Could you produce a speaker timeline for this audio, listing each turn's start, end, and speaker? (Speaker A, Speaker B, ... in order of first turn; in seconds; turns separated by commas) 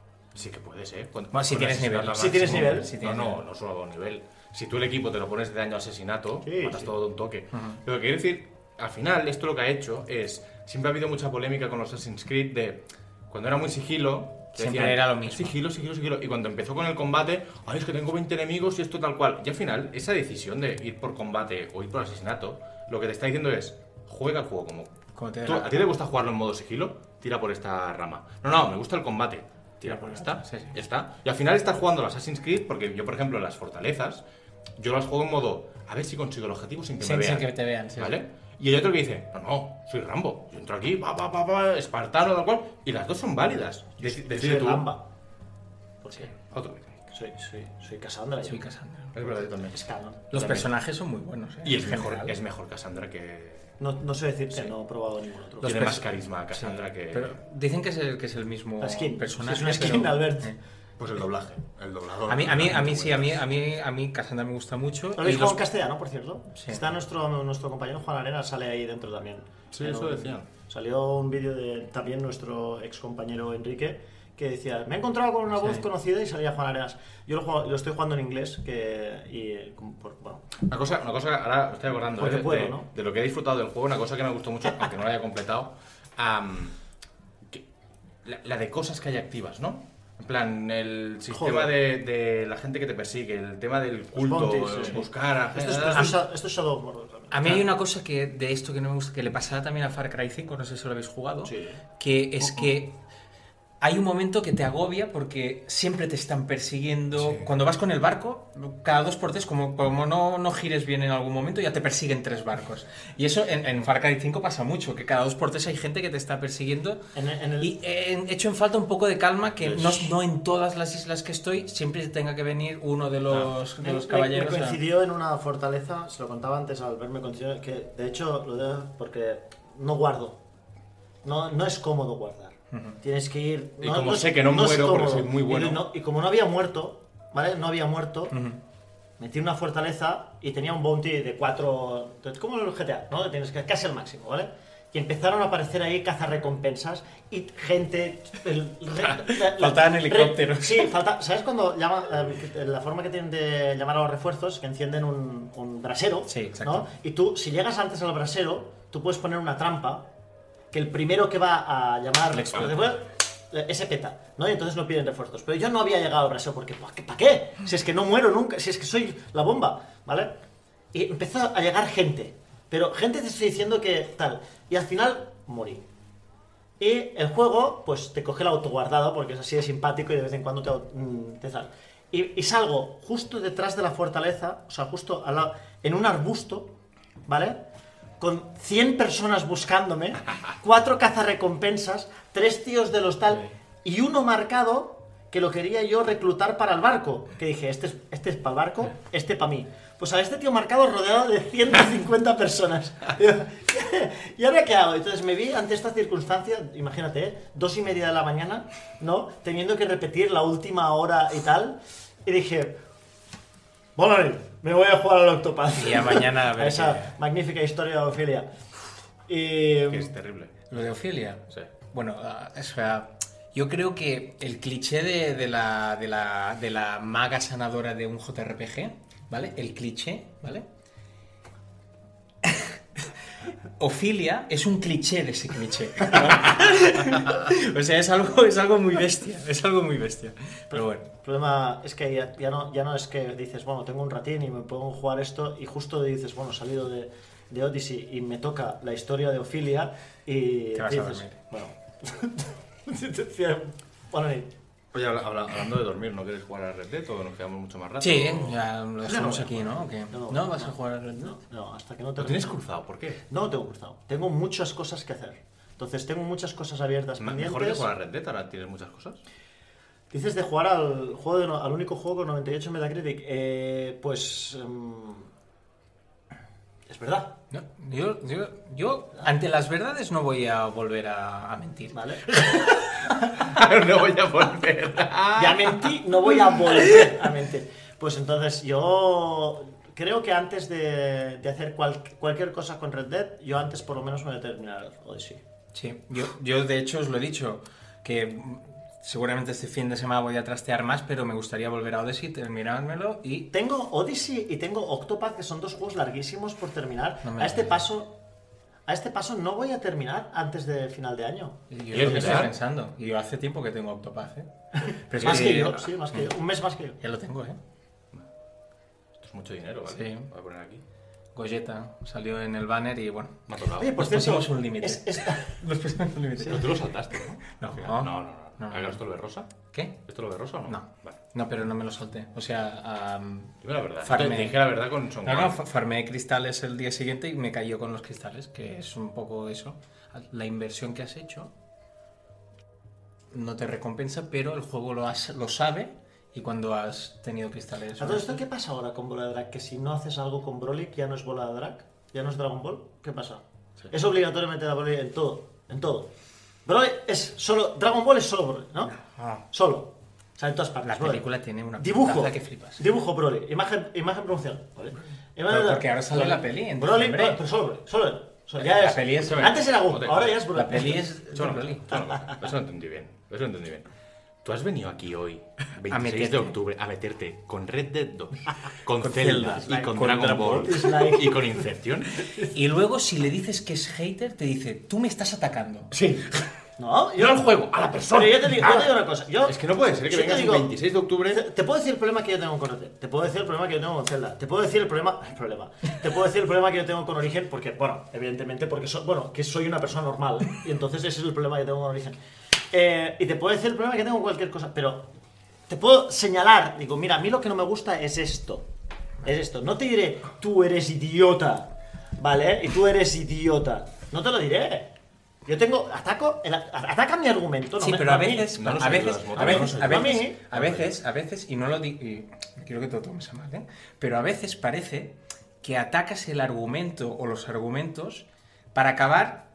Speaker A: 0.3-24.9, Speaker B: 1.3-3.4, Speaker C: 2.1-2.9, Speaker C: 6.5-6.9, Speaker B: 14.6-15.6, Speaker B: 25.1-25.8, Speaker A: 25.5-34.2, Speaker B: 29.9-30.7, Speaker A: 34.8-44.9, Speaker B: 37.0-38.2, Speaker C: 44.0-45.1, Speaker C: 46.0-46.3, Speaker A: 46.4-47.0, Speaker C: 47.1-48.6, Speaker B: 48.5-49.1, Speaker A: 49.1-50.7, Speaker C: 49.7-50.2, Speaker B: 50.3-52.4, Speaker A: 51.6-53.8, Speaker C: 53.8-55.8, Speaker B: 55.6-60.6, Speaker A: 55.6-57.4, Speaker C: 58.8-60.5, Speaker A: 61.0-63.4, Speaker B: 62.3-65.6, Speaker C: 65.2-80.5, Speaker B: 66.5-66.8, Speaker A: 69.7-70.5, Speaker A: 80.7-86.8, Speaker C: 82.2-82.9, Speaker A: 88.2-96.1, Speaker C: 91.3-91.7, Speaker C: 94.2-95.0, Speaker C: 95.6-97.4, Speaker B: 95.6-96.1, Speaker B: 97.3-103.0, Speaker A: 101.5-101.8, Speaker A: 102.4-102.7, Speaker B: 103.8-117.0, Speaker A: 107.2-107.5, Speaker C: 117.2-117.7, Speaker B: 117.6-124.8, Speaker A: 119.6-120.1, Speaker C: 123.8-130.4, Speaker C: 131.2-138.4, Speaker B: 132.7-133.0, Speaker A: 133.8-135.9, Speaker B: 138.3-138.6, Speaker C: 139.2-160.1, Speaker B: 149.4-150.9, Speaker B: 156.3-156.9, Speaker C: 160.7-170.4, Speaker B: 162.3-162.8, Speaker C: 170.9-175.9, Speaker C: 176.8-186.8, Speaker C: 187.3-187.6, Speaker C: 188.2-212.8, Speaker C: 214.0-218.5, Speaker B: 215.8-217.1, Speaker C: 219.3-220.1, Speaker A: 219.9-220.7, Speaker B: 220.7-230.7, Speaker B: 232.4-232.8, Speaker B: 233.8-241.1, Speaker C: 240.7-254.5, Speaker B: 250.7-251.3, Speaker A: 254.9-258.6, Speaker B: 258.0-261.4, Speaker C: 259.0-262.6, Speaker A: 262.2-263.2, Speaker C: 263.3-267.9, Speaker A: 267.2-269.2, Speaker C: 270.1-275.3, Speaker C: 276.9-277.4, Speaker B: 277.5-282.7, Speaker C: 281.9-282.8, Speaker A: 283.4-285.9, Speaker C: 285.4-295.4, Speaker B: 295.7-303.5, Speaker C: 303.5-308.2, Speaker B: 307.2-307.7, Speaker C: 308.9-312.4, Speaker B: 311.7-316.3, Speaker A: 311.9-312.5, Speaker C: 315.2-317.0, Speaker B: 317.0-317.6, Speaker A: 319.2-320.8, Speaker B: 319.9-320.3, Speaker B: 321.4-326.7, Speaker A: 323.5-324.0, Speaker C: 323.8-325.6, Speaker A: 326.4-329.5, Speaker B: 327.6-329.0, Speaker A: 330.1-331.2, Speaker B: 330.7-334.6, Speaker A: 333.6-335.6, Speaker B: 335.2-341.5, Speaker B: 343.3-348.4, Speaker C: 348.0-356.1, Speaker C: 356.7-358.9, Speaker C: 359.5-361.3, Speaker B: 360.8-362.8, Speaker C: 361.8-371.1, Speaker B: 365.5-367.4, Speaker B: 368.6-369.6, Speaker A: 368.8-370.5, Speaker B: 370.5-372.1, Speaker A: 371.4-373.9, Speaker C: 371.9-372.4, Speaker A: 374.4-382.4, Speaker B: 375.9-376.6, Speaker B: 379.0-380.9, Speaker C: 380.6-381.7, Speaker B: 382.5-385.9, Speaker A: 385.9-386.5, Speaker C: 386.8-387.5, Speaker A: 387.2-391.4, Speaker C: 388.1-390.7, Speaker C: 391.3-402.2, Speaker C: 402.7-405.1, Speaker C: 405.7-408.7, Speaker C: 409.2-414.9, Speaker C: 415.5-418.5, Speaker B: 417.8-429.5, Speaker A: 418.5-421.0, Speaker C: 419.3-420.4